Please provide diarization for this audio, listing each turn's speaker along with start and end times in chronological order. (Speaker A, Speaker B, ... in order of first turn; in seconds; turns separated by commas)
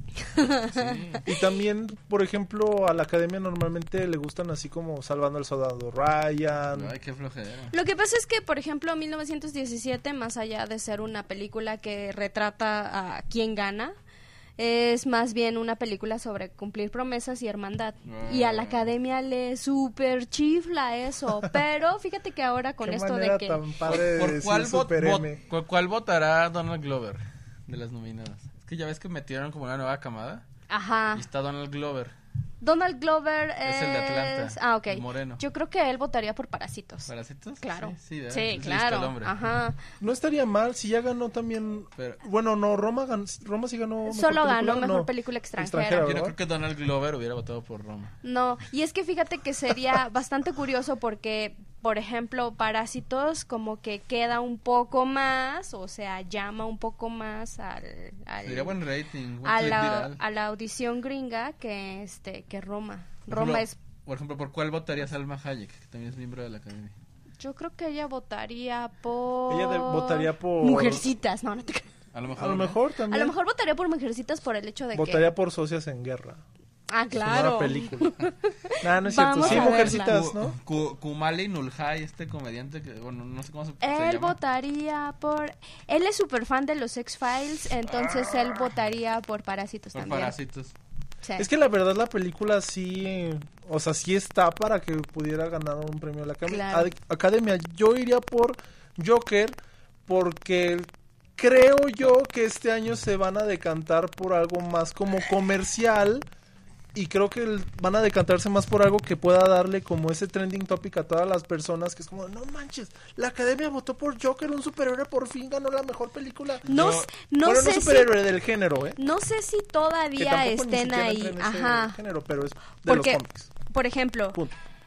Speaker A: 0.3-1.1, Speaker B: 0.7-1.2, Speaker C: 1.2-6.9, Speaker B: 6.7-7.7, Speaker A: 7.7-13.9, Speaker A: 14.6-23.6, Speaker B: 18.0-18.9, Speaker C: 22.8-25.4, Speaker B: 23.8-30.4, Speaker A: 30.7-31.2, Speaker B: 31.1-32.1, Speaker A: 32.6-37.1, Speaker B: 33.6-35.4, Speaker B: 37.1-39.4, Speaker A: 37.6-39.8, Speaker C: 40.0-46.4, Speaker A: 44.0-46.0, Speaker B: 46.0-48.1, Speaker A: 48.2-58.8, Speaker B: 58.4-60.2, Speaker A: 59.4-63.8, Speaker B: 63.3-66.9, Speaker A: 67.4-71.9, Speaker C: 69.5-71.1, Speaker B: 72.1-72.8, Speaker C: 72.3-73.3, Speaker A: 73.1-75.3, Speaker C: 74.9-76.4, Speaker A: 76.9-80.2, Speaker C: 77.2-78.1, Speaker C: 78.8-80.5, Speaker B: 79.3-84.4, Speaker A: 83.8-90.3, Speaker B: 87.8-88.7, Speaker B: 89.9-90.7, Speaker C: 91.4-106.3, Speaker A: 96.5-96.9, Speaker C: 106.9-116.8, Speaker B: 116.6-117.1, Speaker A: 116.7-118.1, Speaker C: 117.4-119.0, Speaker A: 119.0-122.0, Speaker C: 120.2-123.5, Speaker A: 122.8-124.4